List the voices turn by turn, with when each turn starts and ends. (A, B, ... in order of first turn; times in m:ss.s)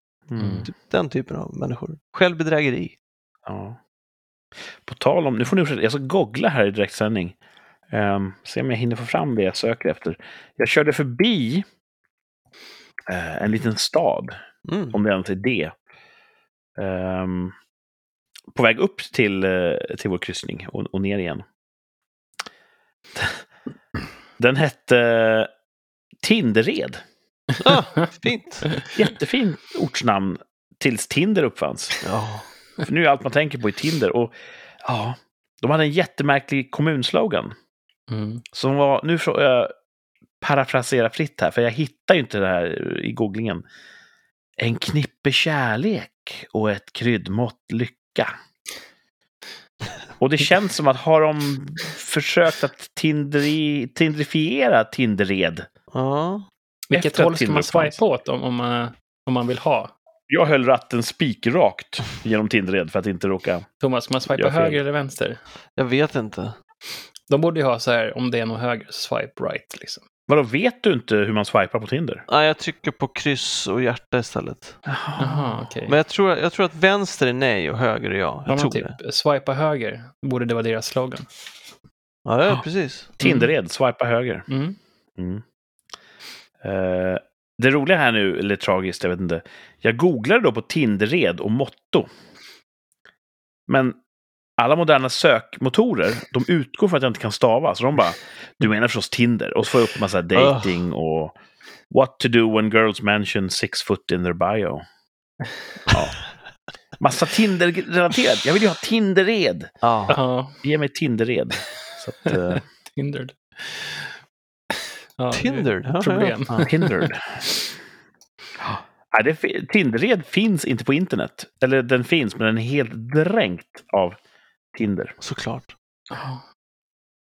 0:00.3-0:00.7 A
0:00.4-0:00.6 B
0:00.6-0:03.0 C
0:03.4-0:03.8 A
0:04.8-0:07.4 A
0:07.9-0:11.6 A
0:13.1-0:14.4 A
0:14.6-0:15.0 C
0:14.9-0:15.7 A
0:16.8-0:17.5 A
0:18.5-0:21.4 A
0:23.2-0:23.4 A
0:24.4-0:25.5 A
0:26.2-0:27.0 A
0:27.6-0:28.7 C
0:28.9-0:32.0 A
0:32.0-0:32.4 C
0:32.8-0:37.5 A
0:38.1-0:38.4 B
0:38.5-0:39.7 A
0:40.4-0:43.6 A
0:44.6-0:48.3 A
0:50.2-0:55.7 A
0:55.9-0:56.4 C
0:56.9-0:59.9 B
0:56.9-0:58.0 A
1:00.3-1:03.7 A
1:03.8-1:05.4 B
1:04.3-1:04.8 A
1:05.8-1:06.6 C
1:07.3-1:10.0 B
1:10.3-1:12.2 A
1:12.3-1:14.8 C
1:14.8-1:15.6 A
1:15.2-1:16.0 B
1:15.9-1:18.9 C
1:18.5-1:21.3 B
1:22.2-1:23.2 C
1:23.2-1:23.5 B
1:23.2-1:24.5 A
1:24.5-1:24.8 B
1:25.2-1:25.4 A
1:26.6-1:32.1 A
1:33.7-1:34.0 A
1:34.6-1:41.4 A
1:40.3-1:40.7 C
1:41.9-1:44.8 A
1:45.9-1:46.2 A
1:47.0-1:49.7 A
1:49.8-1:50.2 C
1:50.1-1:50.6 B
1:50.6-1:52.6 A
1:52.3-1:54.2 B
1:55.2-1:57.1 B
1:55.3-1:56.7 C
1:56.6-1:57.4 A
1:58.6-2:04.2 A
2:04.7-2:05.2 A
2:05.2-2:05.7 C
2:06.1-2:06.4 B